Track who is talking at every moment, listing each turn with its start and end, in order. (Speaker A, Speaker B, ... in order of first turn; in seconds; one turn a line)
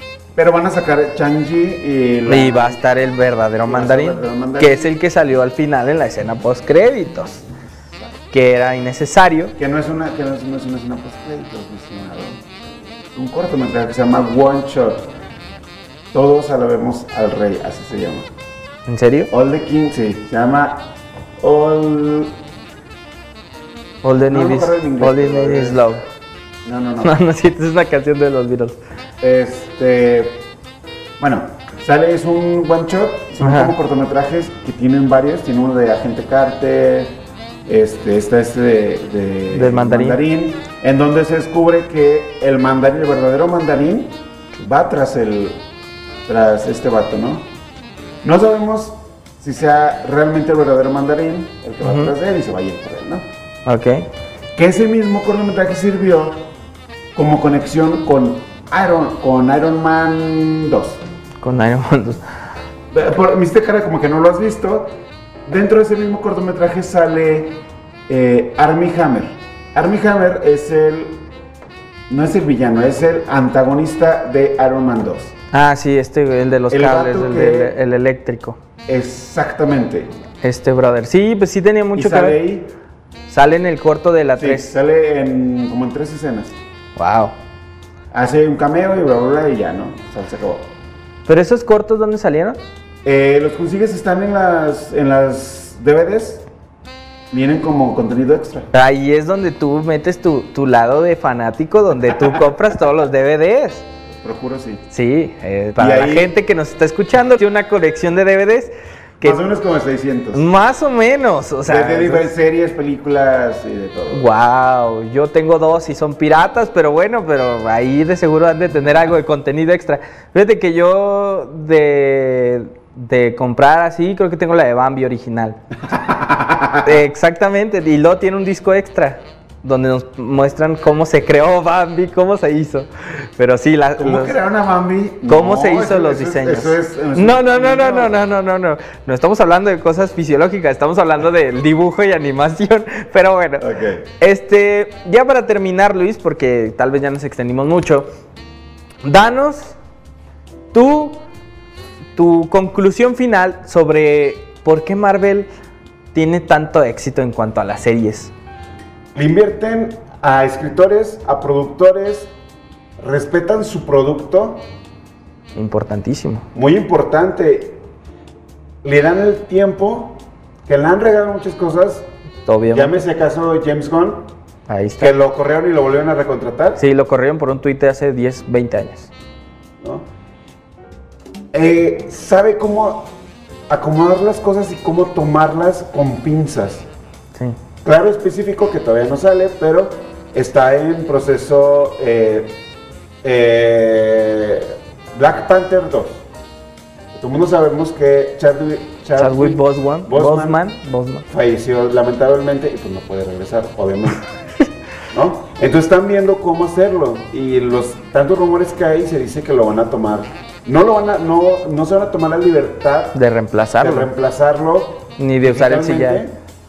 Speaker A: 0.3-2.8
Speaker B: 2.3-7.5
Speaker A: 3.6-4.9
Speaker B: 8.3-9.5
Speaker A: 9.6-12.4
Speaker A: 13.1-15.1
Speaker A: 16.1-18.3
Speaker B: 18.9-19.3
Speaker A: 19.3-22.3
Speaker B: 24.0-26.0
Speaker A: 24.3-25.9
Speaker A: 26.6-27.1
Speaker B: 27.0-28.8
Speaker A: 29.2-30.4
Speaker A: 31.2-37.1
Speaker B: 33.4-33.7
Speaker A: 37.6-45.6
Speaker B: 39.5-40.2
Speaker A: 46.2-47.5
Speaker A: 48.2-53.2
Speaker B: 51.8-52.1
Speaker B: 53.6-54.0
Speaker A: 54.5-56.5
Speaker A: 57.1-61.0
Speaker B: 61.4-62.2
Speaker A: 62.9-64.9
Speaker A: 65.5-71.2
Speaker A: 72.1-75.3
Speaker B: 75.5-78.6
Speaker A: 76.7-77.7
Speaker A: 78.9-80.1
Speaker B: 80.4-82.4
Speaker A: 81.9-82.7
Speaker B: 83.3-84.7
Speaker A: 84.4-86.6
Speaker B: 87.0-87.3
Speaker A: 88.1-90.7
Speaker B: 91.3-92.6
Speaker A: 93.0-96.5
Speaker A: 97.3-98.7
Speaker B: 98.7-103.9
Speaker A: 104.2-104.8
Speaker B: 104.9-109.4
Speaker A: 105.8-106.3
Speaker A: 109.2-110.4
Speaker B: 110.3-112.3
Speaker A: 111.7-114.3
Speaker B: 114.1-125.6
Speaker A: 125.9-127.0
Speaker B: 126.8-134.3
Speaker A: 134.0-138.2
Speaker B: 135.3-143.7
Speaker A: 143.6-144.0
Speaker B: 144.2-148.1
Speaker B: 149.0-149.8
Speaker B: 150.7-151.2
Speaker B: 152.2-155.5
Speaker B: 156.1-158.3
Speaker A: 159.1-162.3
Speaker A: 163.0-164.7
Speaker B: 165.5-166.4
Speaker A: 166.5-167.8
Speaker A: 168.8-172.1
Speaker B: 172.4-173.0
Speaker A: 172.7-174.3
Speaker B: 174.7-175.1
Speaker A: 175.0-176.8
Speaker B: 176.8-179.1
Speaker A: 179.8-180.1
Speaker A: 181.5-183.1
Speaker A: 183.7-186.8
Speaker A: 187.8-192.6
Speaker A: 193.2-196.2
Speaker A: 197.1-200.6
Speaker B: 199.2-201.2
Speaker A: 201.3-204.2
Speaker A: 205.1-213.2
Speaker B: 213.1-214.1
Speaker A: 213.8-216.3
Speaker B: 215.2-216.2